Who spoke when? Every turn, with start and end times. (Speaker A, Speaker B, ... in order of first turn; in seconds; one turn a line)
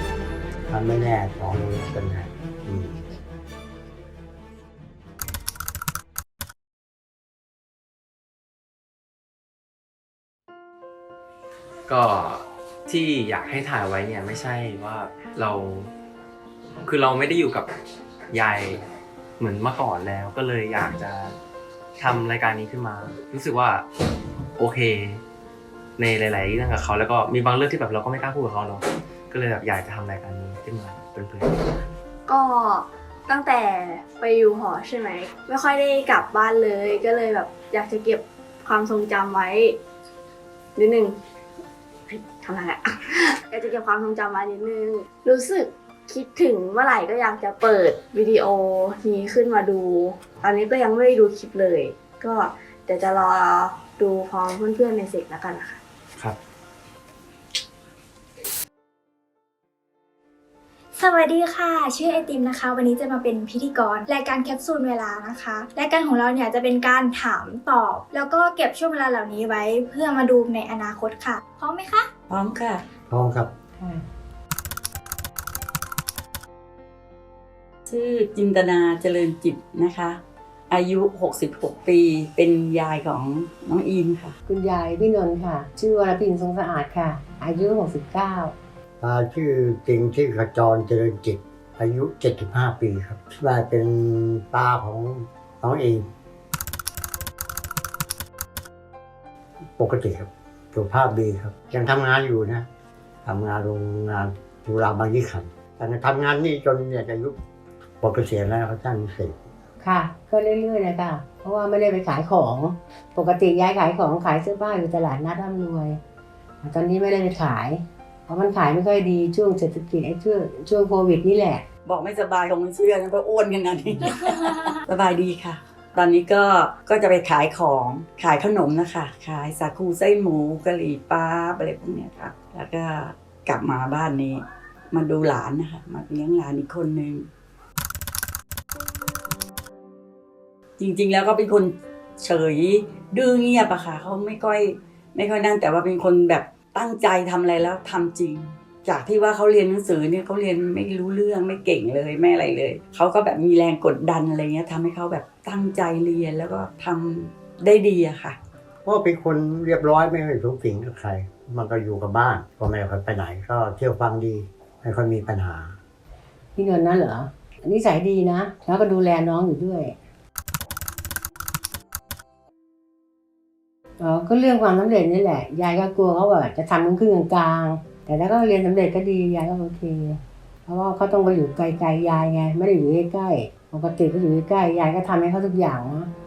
Speaker A: 0.7-3.0
Speaker B: 11.9-15.9
Speaker B: 16.8-17.7
Speaker B: 18.3-18.9
Speaker B: 19.4-21.4
Speaker B: 22.0-23.9
Speaker B: 24.6-25.2
Speaker B: 26.0-31.9
Speaker C: 32.3-39.8
Speaker C: 40.8-41.2
Speaker C: 42.1-55.8
Speaker D: 61.0-72.1
Speaker E: 72.3-72.8
Speaker A: 73.1-73.5
Speaker F: 73.8-74.0
Speaker E: 77.9-84.3
Speaker F: 84.5-88.5
Speaker A: 89.0-96.1
Speaker A: 99.8-102.7
Speaker A: 103.2-107.4
Speaker A: 108.0-109.4
Speaker F: 109.8-116.0
Speaker F: 116.6-121.7
Speaker E: 121.8-137.3
Speaker E: 140.8-158.4
Speaker A: 158.8-165.8
Speaker F: 166.6-169.9
Speaker F: 174.0-186.1